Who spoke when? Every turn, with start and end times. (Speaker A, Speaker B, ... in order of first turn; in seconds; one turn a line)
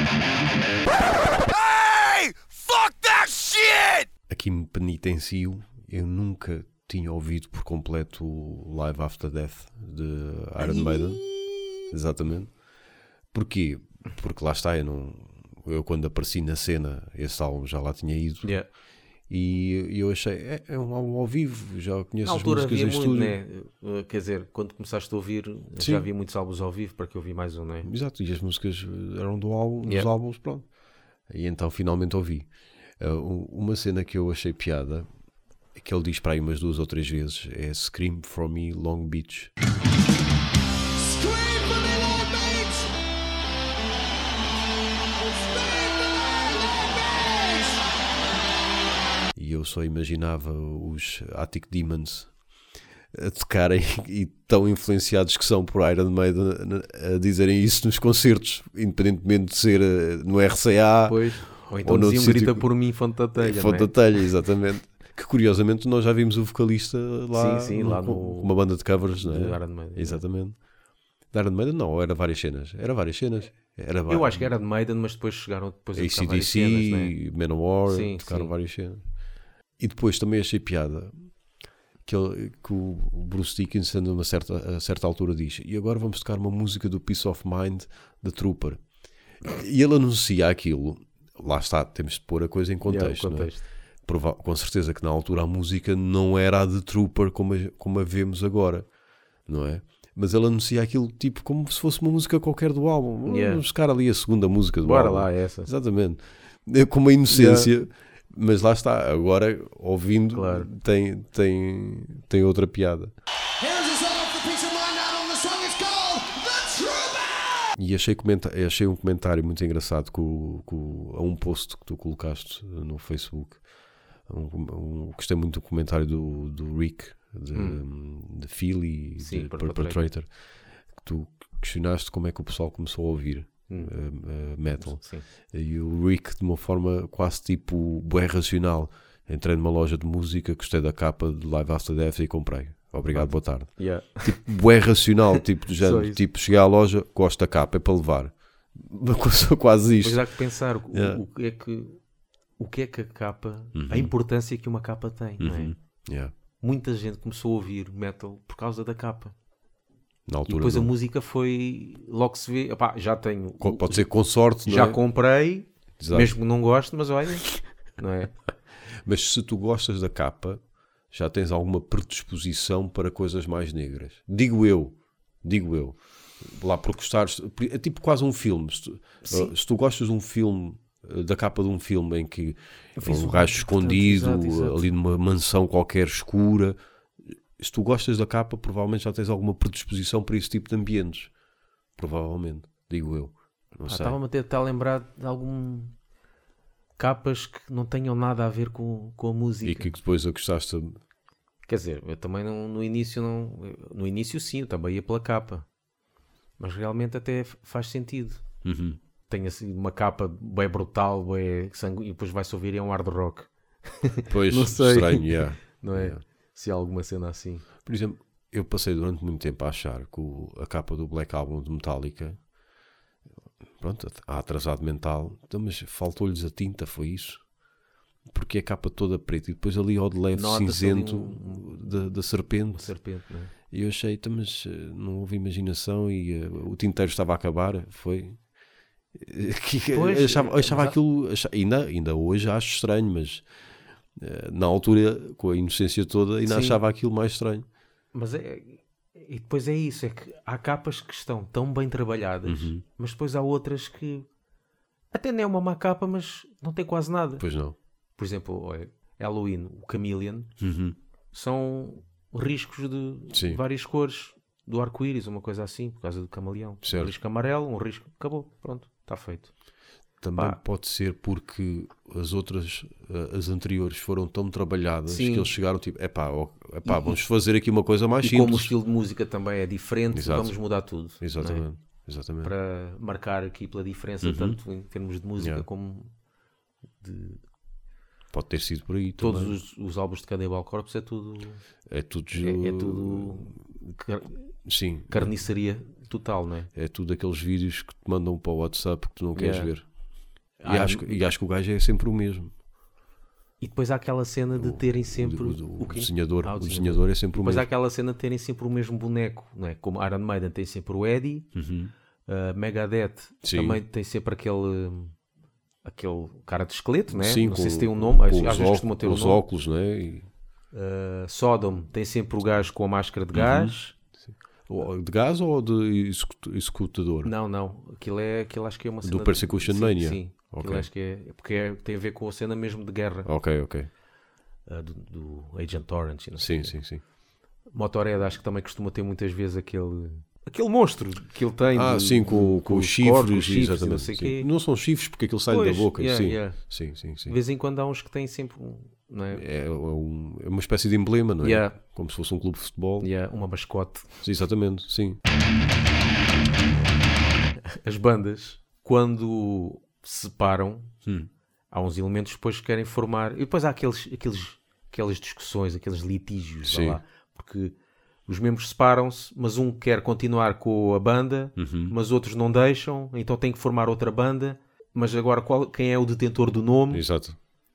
Speaker A: 3.4-3.9
Speaker B: 4.3-11.2
Speaker C: 10.6-11.7
Speaker B: 11.9-12.5
Speaker B: 13.3-18.6
Speaker C: 18.4-18.7
Speaker B: 19.3-23.4
Speaker C: 22.2-27.9
Speaker B: 25.8-26.1
Speaker B: 27.8-30.6
Speaker C: 29.8-30.1
Speaker B: 31.3-35.1
Speaker B: 35.7-39.5
Speaker A: 41.1-42.9
Speaker A: 45.3-47.8
Speaker B: 49.4-52.3
Speaker B: 53.1-62.7
Speaker C: 61.1-63.9
Speaker B: 63.4-70.5
Speaker C: 67.3-68.5
Speaker C: 69.2-70.2
Speaker B: 71.3-74.5
Speaker C: 74.1-77.1
Speaker B: 75.9-79.0
Speaker C: 77.9-78.5
Speaker B: 79.8-81.1
Speaker B: 82.0-88.8
Speaker B: 89.4-98.8
Speaker C: 92.8-93.6
Speaker B: 99.5-113.1
Speaker C: 103.2-103.6
Speaker C: 104.8-105.7
Speaker C: 107.3-107.7
Speaker C: 110.3-110.7
Speaker A: 113.6-117.7
Speaker B: 117.7-123.6
Speaker B: 124.3-130.3
Speaker C: 127.5-127.8
Speaker C: 129.2-130.0
Speaker B: 131.0-150.2
Speaker C: 133.7-133.9
Speaker C: 134.8-135.2
Speaker C: 143.1-144.4
Speaker C: 145.3-146.2
Speaker C: 150.0-152.0
Speaker B: 150.9-151.2
Speaker C: 152.6-155.7
Speaker B: 153.7-154.1
Speaker B: 155.4-156.3
Speaker C: 156.6-159.3
Speaker B: 160.3-160.9
Speaker C: 160.5-164.1
Speaker B: 163.6-165.0
Speaker C: 164.6-168.3
Speaker B: 166.0-166.3
Speaker B: 169.0-170.6
Speaker B: 171.1-186.8
Speaker C: 179.2-179.5
Speaker C: 183.0-184.8
Speaker B: 187.6-191.3
Speaker B: 192.0-194.2
Speaker C: 193.9-195.9
Speaker C: 197.0-199.9
Speaker B: 199.6-201.0
Speaker C: 201.7-205.7
Speaker C: 206.6-208.4
Speaker B: 208.6-209.0
Speaker C: 209.3-217.6
Speaker B: 214.3-216.2
Speaker B: 217.8-222.4
Speaker B: 223.8-227.4
Speaker B: 228.3-232.9
Speaker C: 230.3-231.7
Speaker C: 232.7-233.5
Speaker B: 233.7-238.4
Speaker B: 239.1-243.5
Speaker C: 239.9-240.9
Speaker B: 244.2-247.6
Speaker C: 246.4-246.8
Speaker C: 248.1-254.3
Speaker B: 252.4-252.8
Speaker C: 255.1-257.4
Speaker B: 257.4-257.8
Speaker C: 258.2-260.5
Speaker B: 260.6-261.0
Speaker C: 261.3-269.5
Speaker B: 263.3-263.6
Speaker B: 266.8-267.1
Speaker B: 270.2-278.7
Speaker C: 275.1-275.5
Speaker C: 276.8-277.2
Speaker C: 278.2-281.6
Speaker B: 280.1-280.6
Speaker B: 281.2-282.5
Speaker C: 282.4-286.1
Speaker B: 284.2-284.6
Speaker B: 285.4-285.6
Speaker C: 287.0-287.4
Speaker B: 288.3-289.6
Speaker C: 289.2-291.6
Speaker B: 291.9-293.6
Speaker C: 292.3-294.5
Speaker B: 294.6-295.3
Speaker C: 295.1-296.7
Speaker B: 296.7-299.9
Speaker C: 299.4-299.7
Speaker C: 300.6-301.2
Speaker B: 300.6-302.5
Speaker C: 303.6-311.5
Speaker B: 304.6-307.7
Speaker B: 311.5-311.9
Speaker C: 312.2-315.1
Speaker B: 313.4-313.8
Speaker C: 315.8-319.4
Speaker B: 317.1-320.3
Speaker C: 320.7-323.9
Speaker B: 323.3-323.7
Speaker B: 324.7-327.3
Speaker C: 327.2-333.3
Speaker B: 329.0-330.9
Speaker B: 333.2-333.9
Speaker C: 334.7-336.7
Speaker B: 336.4-337.0
Speaker C: 337.7-344.5
Speaker B: 341.7-347.3
Speaker C: 345.5-346.6
Speaker C: 347.3-349.4
Speaker B: 349.3-353.1
Speaker C: 351.4-351.8
Speaker C: 353.0-354.1
Speaker B: 354.2-355.2
Speaker C: 357.6-360.9
Speaker C: 361.7-367.7
Speaker B: 366.6-367.0
Speaker C: 368.3-377.0
Speaker B: 371.6-371.9
Speaker B: 376.9-377.4